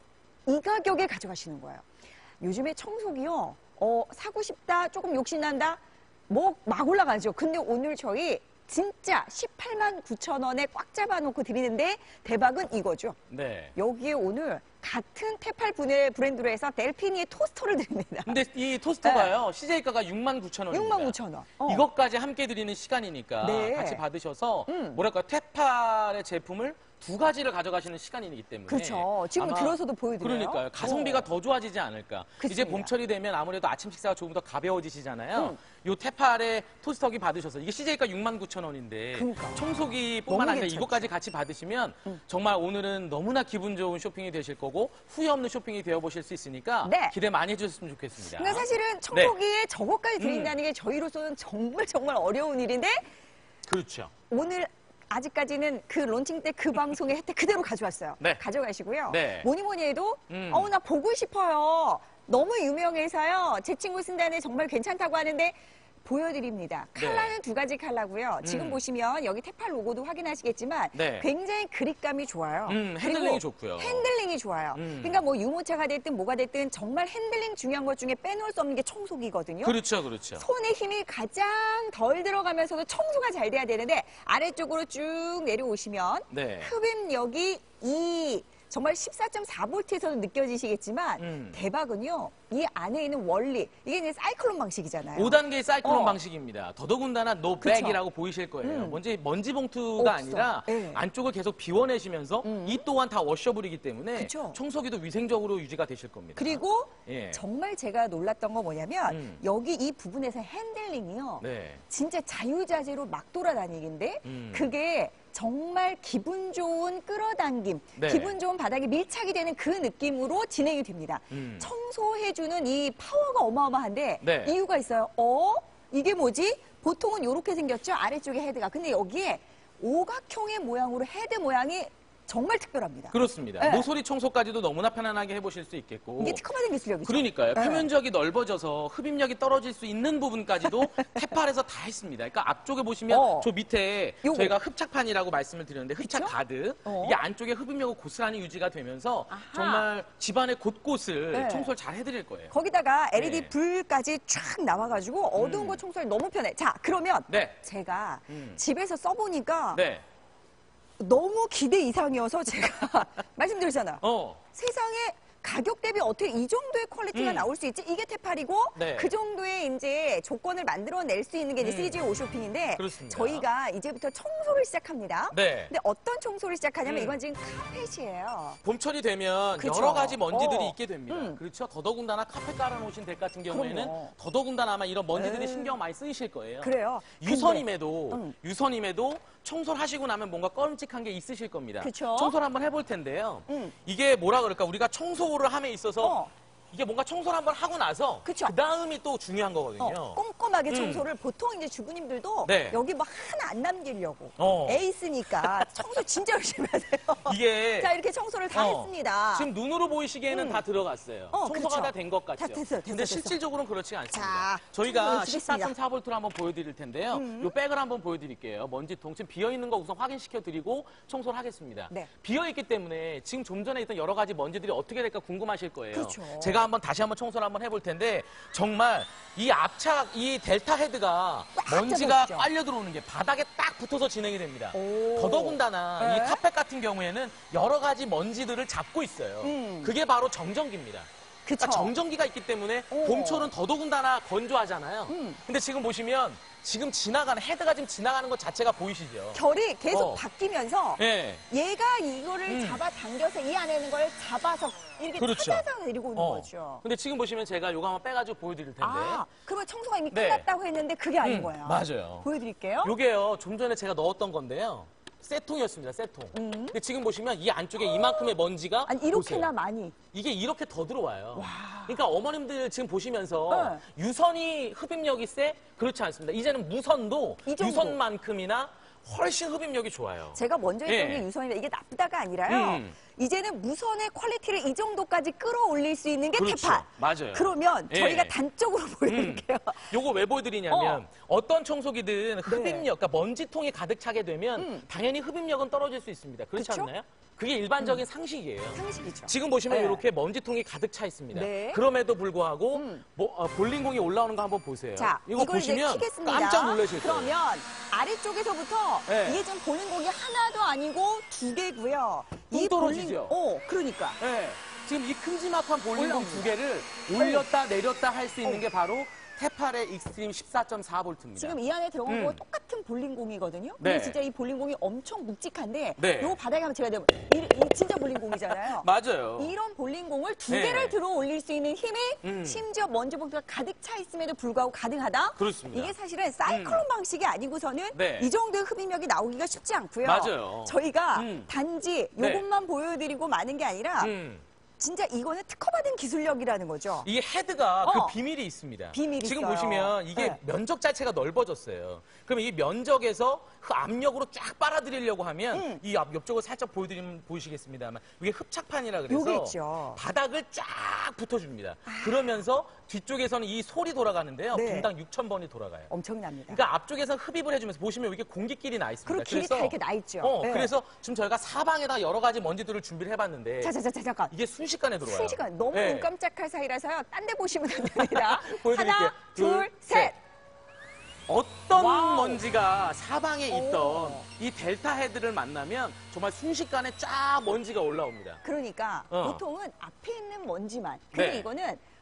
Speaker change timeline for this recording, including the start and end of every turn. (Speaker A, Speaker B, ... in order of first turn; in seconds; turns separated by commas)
Speaker A: 0.5-1.8, Speaker A: 2.4-13.2, Speaker B: 13.3-13.7, Speaker A: 13.7-18.4, Speaker B: 18.2-49.3, Speaker A: 19.0-19.3, Speaker A: 20.7-21.8, Speaker A: 23.4-24.0, Speaker A: 24.7-25.0, Speaker A: 28.7-31.3, Speaker A: 32.4-32.9, Speaker A: 39.1-39.7, Speaker A: 40.3-41.1, Speaker A: 46.8-47.1, Speaker A: 48.4-53.0, Speaker B: 50.2-50.5, Speaker B: 53.7-54.1, Speaker A: 54.3-79.8, Speaker B: 59.1-59.5, Speaker B: 60.3-60.7, Speaker B: 67.0-67.3, Speaker B: 68.4-68.8, Speaker B: 70.9-71.2, Speaker B: 72.7-74.1, Speaker B: 74.7-75.2, Speaker B: 79.6-80.4, Speaker A: 80.4-96.2, Speaker B: 86.3-86.7, Speaker B: 91.2-91.6, Speaker B: 95.1-107.4, Speaker A: 97.6-98.0, Speaker A: 98.6-99.0, Speaker A: 100.0-101.0, Speaker A: 102.4-102.8, Speaker A: 104.2-104.6, Speaker A: 106.3-133.9, Speaker B: 109.1-109.4, Speaker B: 111.4-111.8, Speaker B: 114.2-114.7, Speaker B: 118.0-118.3, Speaker B: 121.3-121.7, Speaker B: 124.2-124.5, Speaker B: 133.1-136.4, Speaker A: 136.2-137.9, Speaker B: 137.0-152.5, Speaker A: 140.6-141.3, Speaker A: 143.1-143.5, Speaker A: 144.2-144.5, Speaker A: 146.0-147.2, Speaker A: 149.3-149.8, Speaker A: 151.3-151.7, Speaker A: 152.5-159.8, Speaker B: 153.1-153.5, Speaker B: 155.3-155.8, Speaker B: 157.3-157.6, Speaker B: 158.3-158.6, Speaker B: 159.7-160.0, Speaker A: 161.0-178.6, Speaker B: 164.0-164.4, Speaker B: 167.1-167.5, Speaker B: 168.7-169.1, Speaker B: 171.6-172.0, Speaker B: 172.8-173.4, Speaker B: 175.3-175.7, Speaker B: 176.8-177.2, Speaker B: 178.6-196.2, Speaker A: 179.6-181.4, Speaker A: 183.5-184.1, Speaker A: 185.1-185.8, Speaker A: 186.6-188.3, Speaker A: 191.8-192.3, Speaker A: 193.5-193.7, Speaker A: 196.0-196.3, Speaker B: 196.7-201.1, Speaker A: 198.2-198.6, Speaker A: 199.8-209.5, Speaker B: 202.4-202.8, Speaker B: 204.4-204.8, Speaker B: 205.4-205.8, Speaker B: 207.2-207.9, Speaker B: 208.5-241.1, Speaker A: 210.3-210.6, Speaker A: 211.3-213.4, Speaker A: 214.1-215.7, Speaker A: 217.1-217.5, Speaker A: 225.9-226.6, Speaker A: 231.6-232.5, Speaker A: 234.7-236.4, Speaker A: 239.4-239.9, Speaker A: 241.4-241.9, Speaker B: 241.6-250.2, Speaker A: 242.9-243.5, Speaker A: 245.1-245.4, Speaker A: 249.3-256.8, Speaker B: 251.0-251.4, Speaker B: 252.5-252.8, Speaker B: 255.2-259.2, Speaker A: 258.8-262.9, Speaker B: 260.1-260.5, Speaker B: 261.2-262.3, Speaker B: 262.8-269.5, Speaker A: 266.3-266.8, Speaker A: 267.8-269.9, Speaker B: 270.1-281.2, Speaker A: 271.3-272.0, Speaker A: 273.5-273.8, Speaker A: 277.4-278.0, Speaker A: 280.3-289.9, Speaker B: 282.5-282.9, Speaker B: 286.3-288.3, Speaker B: 289.1-307.3, Speaker A: 290.7-291.0, Speaker A: 292.4-292.9, Speaker A: 294.6-294.9, Speaker A: 296.6-296.9, Speaker A: 298.7-300.0, Speaker A: 301.3-301.8, Speaker A: 302.7-303.0, Speaker A: 304.9-314.2, Speaker B: 309.1-309.4, Speaker B: 312.5-313.4, Speaker B: 314.2-322.4, Speaker A: 315.9-316.5, Speaker A: 317.1-317.4, Speaker A: 321.4-344.1, Speaker B: 323.8-324.2, Speaker B: 326.0-326.4, Speaker B: 328.4-329.5, Speaker B: 330.5-331.0, Speaker B: 332.2-332.6, Speaker B: 335.4-335.9, Speaker B: 336.5-336.9, Speaker B: 337.9-338.3, Speaker B: 340.0-341.5, Speaker B: 342.2-342.4, Speaker B: 344.0-344.4, Speaker A: 344.8-347.1, Speaker B: 347.0-365.9, Speaker A: 347.8-348.2, Speaker A: 348.9-350.4, Speaker A: 355.5-355.8, Speaker A: 359.1-360.0, Speaker A: 361.9-362.4, Speaker A: 364.5-364.9, Speaker A: 365.9-366.6, Speaker B: 366.5-373.7, Speaker A: 369.0-370.7, Speaker A: 373.6-374.3, Speaker B: 374.3-376.1, Speaker A: 375.0-380.2, Speaker B: 377.8-380.1, Speaker B: 381.3-388.4, Speaker A: 381.7-382.4, Speaker A: 383.5-384.3, Speaker A: 388.4-391.8, Speaker B: 389.1-389.4, Speaker B: 391.1-391.5